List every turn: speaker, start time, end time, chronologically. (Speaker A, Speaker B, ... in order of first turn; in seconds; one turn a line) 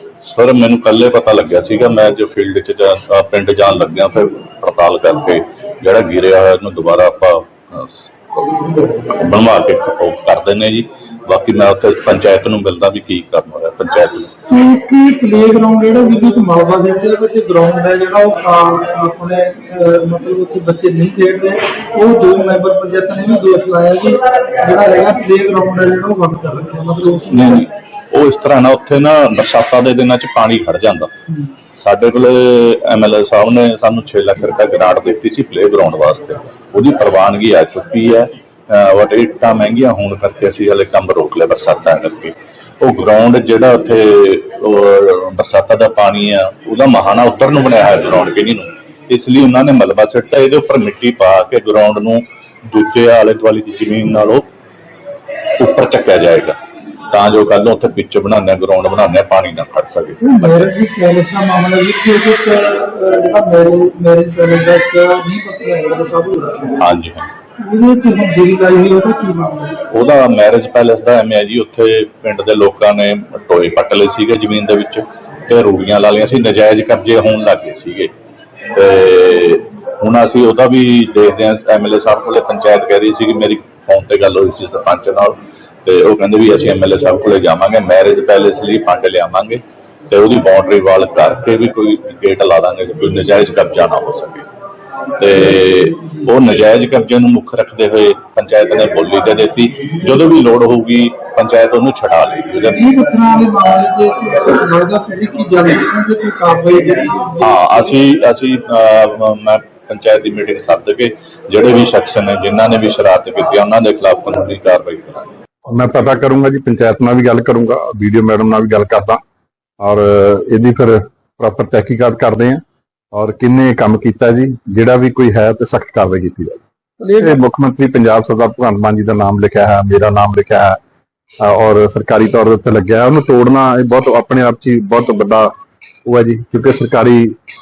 Speaker A: 0.2-14.3
Speaker B: 14.5-27.6
Speaker A: 27.3-31.1
Speaker A: 31.8-54.4
Speaker A: 55.6-56.6
Speaker A: 57.1-60.7
Speaker B: 60.2-66.9
Speaker A: 66.8-67.3
Speaker B: 67.6-69.8
Speaker A: 69.9-78.1
Speaker A: 78.7-85.3
Speaker A: 85.8-94.5
Speaker A: 95.2-102.8
Speaker B: 102.7-107.6
Speaker A: 107.4-115.3
Speaker C: 115.7-119.2
Speaker C: 119.8-122.6
Speaker C: 123.1-130.8
Speaker C: 131.4-135.5
Speaker C: 136.1-137.3